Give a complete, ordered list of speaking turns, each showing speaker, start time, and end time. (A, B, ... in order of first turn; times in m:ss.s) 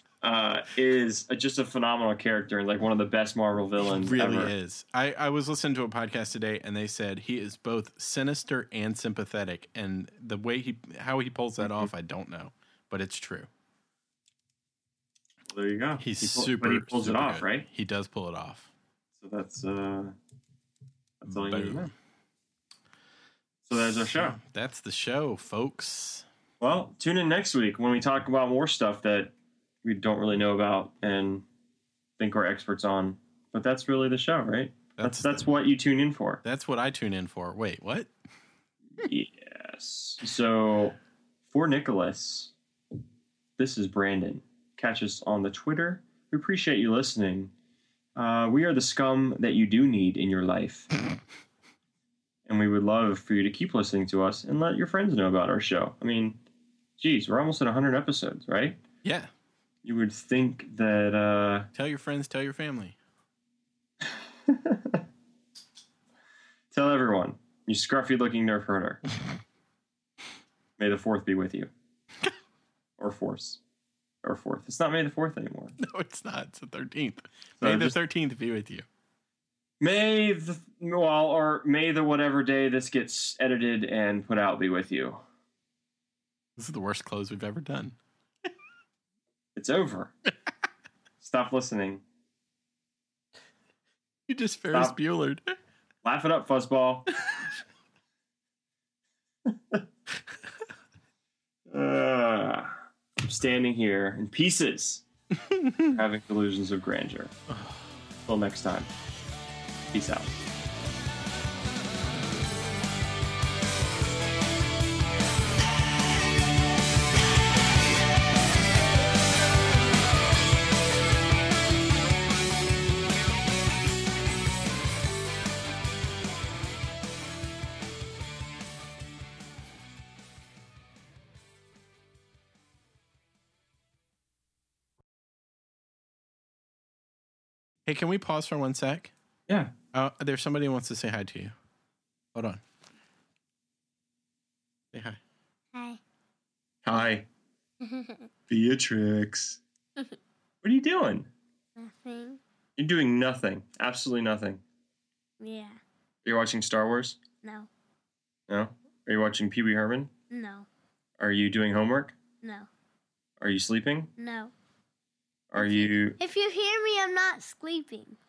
0:00.2-0:04.5 A
0:03.8-0:13.5 B
0:11.6-0:11.9 A
0:15.5-0:17.6 A
0:16.0-0:18.7 B
0:19.2-0:20.2 A
0:21.2-0:21.9 A
0:21.3-0:21.9 B
0:23.7-0:24.4 A
0:23.7-0:26.2 B
0:26.6-0:29.3 A
0:29.8-0:31.4 A
0:32.2-0:36.4 A
0:35.0-0:35.4 B
0:36.4-0:38.1 B
0:39.0-0:41.0 A
0:41.5-0:42.5 A
0:43.6-0:47.5 A
0:48.2-0:50.9 A
0:52.5-0:56.4 A
0:57.0-0:58.8 A
0:59.0-0:59.3 B
0:59.8-1:01.7 A
1:01.7-1:03.0 B
1:04.1-1:05.0 A
1:06.7-1:09.0 A
1:10.8-1:11.7 A
1:13.0-1:13.6 A
1:14.2-1:15.8 A
1:15.8-1:18.8 B
1:17.6-1:18.0 A
1:19.8-1:25.2 A
1:26.6-1:28.0 B
1:29.6-1:30.1 A
1:31.2-1:32.0 A
1:34.3-1:35.5 B
1:36.0-1:37.1 A
1:39.4-1:39.8 A
1:41.7-1:45.0 A
1:45.6-1:45.8 B
1:45.8-1:47.3 A
1:47.5-1:47.8 B
1:48.3-1:48.9 A
1:49.9-1:50.3 A
2:17.8-2:19.1 B
2:19.5-2:19.7 A
2:19.9-2:21.5 B
2:22.3-2:22.6 B
2:24.9-2:25.2 B
2:25.7-2:26.0 C
2:26.8-2:27.3 A
2:27.8-2:28.3 C
2:28.5-2:29.6 A
2:30.6-2:31.3 A
2:31.8-2:32.4 C
2:32.8-2:34.6 A
2:35.4-2:35.8 C
2:36.3-2:37.2 A
2:37.4-2:37.7 C
2:38.5-2:40.1 A
2:40.3-2:40.7 C
2:41.2-2:42.2 A
2:42.4-2:42.7 C
2:43.4-2:44.1 A
2:44.2-2:44.5 C
2:45.5-2:46.2 A
2:45.6-2:48.2 C